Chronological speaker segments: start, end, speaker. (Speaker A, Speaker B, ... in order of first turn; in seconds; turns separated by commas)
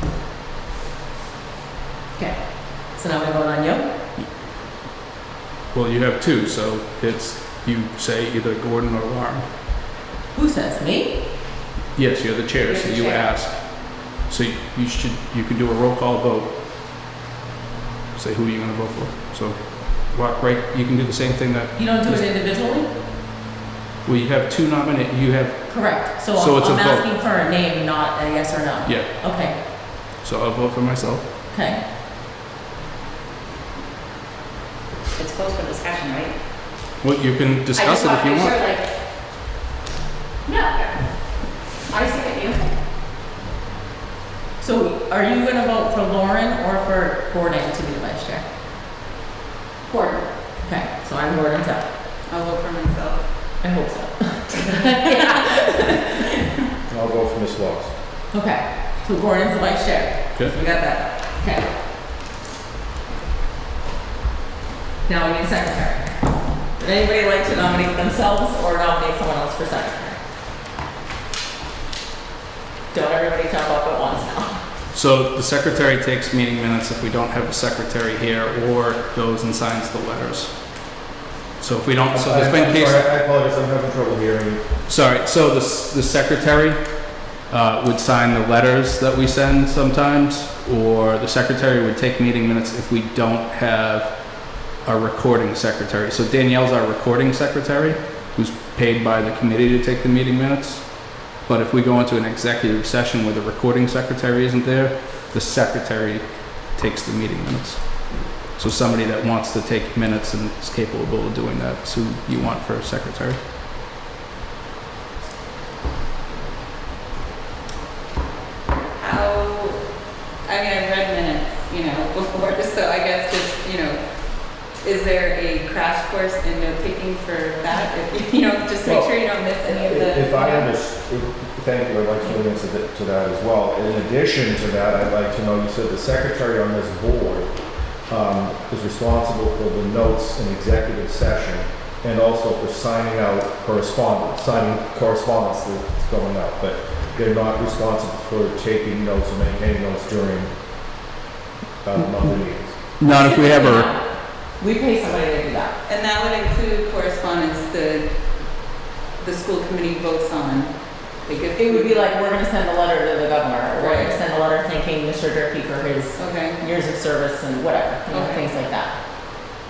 Speaker A: 2.2-3.9, Speaker B: 5.7-9.5, Speaker A: 10.3-11.4, Speaker B: 11.9-16.5, Speaker A: 12.7-13.3, Speaker B: 18.1-22.3, Speaker A: 21.7-22.9, Speaker B: 24.0-27.1, Speaker A: 25.7-29.6, Speaker B: 28.9-31.2, Speaker A: 31.5-31.8, Speaker C: 35.2-36.4, Speaker B: 37.0-38.5, Speaker A: 37.8-38.9, Speaker A: 40.5-41.2, Speaker A: 41.9-42.7, Speaker A: 44.6-48.5, Speaker A: 49.9-51.9, Speaker C: 52.3-53.3, Speaker A: 53.6-56.1, Speaker D: 56.9-57.9, Speaker A: 58.3-60.4, Speaker C: 60.5-61.2, Speaker A: 61.4-61.7, Speaker A: 65.0-66.2, Speaker A: 66.8-70.2, Speaker A: 72.9-74.6, Speaker B: 74.9-81.0, Speaker B: 81.6-83.1, Speaker D: 82.1-84.6, Speaker B: 84.9-113.4, Speaker C: 119.0-130.7, Speaker D: 128.8-150.6, Speaker D: 151.8-152.8, Speaker B: 152.0-152.3, Speaker B: 153.0-153.9, Speaker A: 153.1-155.8, Speaker C: 155.8-162.1, Speaker A: 161.6-168.9, Speaker C: 163.7-164.2, Speaker C: 166.1-166.6, Speaker C: 168.1-168.5